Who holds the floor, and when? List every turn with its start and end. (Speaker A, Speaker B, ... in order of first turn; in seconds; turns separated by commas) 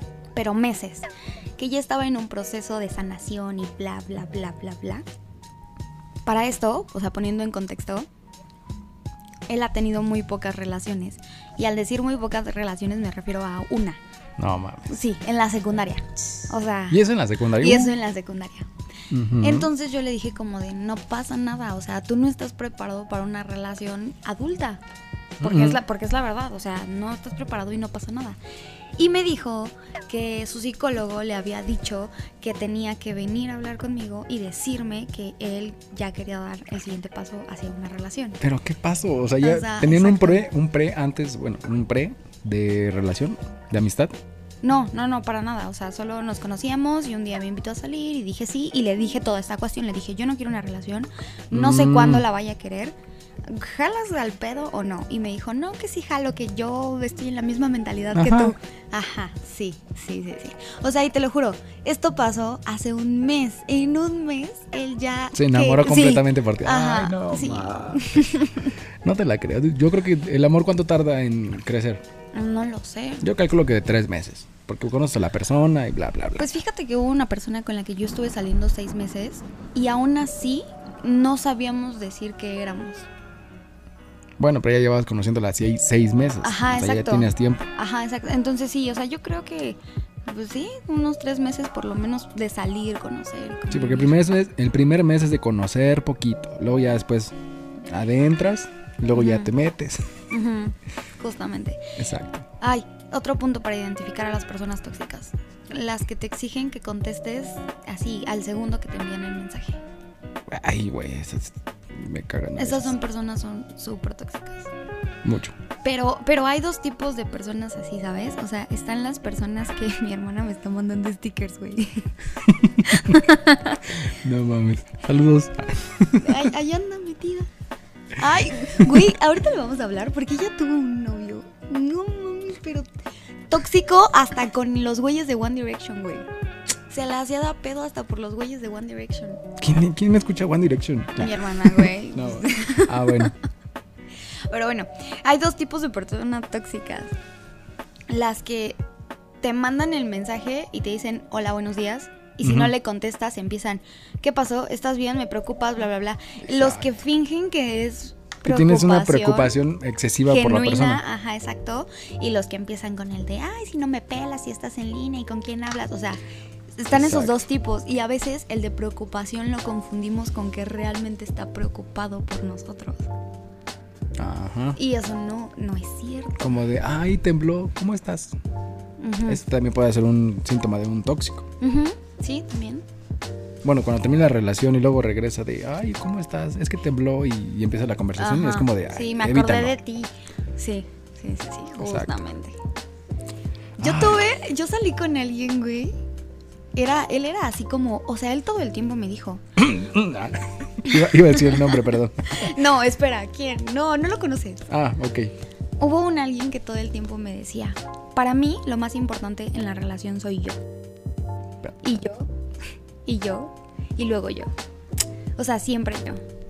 Speaker A: 0.3-5.0, Speaker A: 6.2-8.1, Speaker A: 9.5-14.0, Speaker B: 14.4-14.9, Speaker A: 14.9-18.7, Speaker B: 16.9-17.9, Speaker B: 19.1-19.7, Speaker A: 19.4-24.8, Speaker A: 25.4-28.4, Speaker B: 25.4-25.8, Speaker A: 29.0-38.4, Speaker B: 38.4-44.1, Speaker A: 39.4-40.5, Speaker A: 44.6-68.7, Speaker B: 51.5-52.3, Speaker B: 58.1-58.5, Speaker B: 65.3-68.4, Speaker B: 69.0-72.0, Speaker A: 72.3-73.2, Speaker B: 73.2-76.5, Speaker A: 76.4-83.1, Speaker B: 84.4-87.6, Speaker A: 86.4-94.1, Speaker B: 93.7-97.3, Speaker B: 97.8-100.1, Speaker A: 99.1-99.5, Speaker A: 100.3-101.9, Speaker B: 102.0-102.5, Speaker A: 102.6-109.8, Speaker B: 110.5-112.9, Speaker A: 112.6-114.7, Speaker B: 115.2-115.5, Speaker A: 115.8-122.1, Speaker B: 122.5-123.2, Speaker A: 122.8-124.0, Speaker B: 123.9-126.5, Speaker A: 126.2-127.5, Speaker A: 128.1-132.9, Speaker A: 133.5-136.3, Speaker A: 136.9-139.4, Speaker B: 139.6-143.3, Speaker A: 141.2-143.3, Speaker A: 144.5-147.1, Speaker A: 148.1-148.8, Speaker A: 149.4-159.5, Speaker B: 152.4-152.7, Speaker B: 156.4-156.9, Speaker B: 158.4-161.0, Speaker A: 160.3-166.2, Speaker A: 166.8-173.1, Speaker B: 166.9-167.4, Speaker B: 174.2-174.8, Speaker A: 174.8-176.6, Speaker B: 176.4-178.3, Speaker A: 179.0-179.4, Speaker B: 179.2-181.4, Speaker A: 181.6-182.8, Speaker B: 183.6-189.7, Speaker A: 188.2-192.6, Speaker B: 191.8-192.1, Speaker A: 193.8-195.9, Speaker B: 193.8-194.2, Speaker A: 196.7-199.4, Speaker B: 199.6-202.5, Speaker A: 200.9-204.7, Speaker B: 204.7-205.3, Speaker A: 205.8-210.6, Speaker A: 211.8-212.3, Speaker A: 213.1-214.5, Speaker A: 215.4-216.2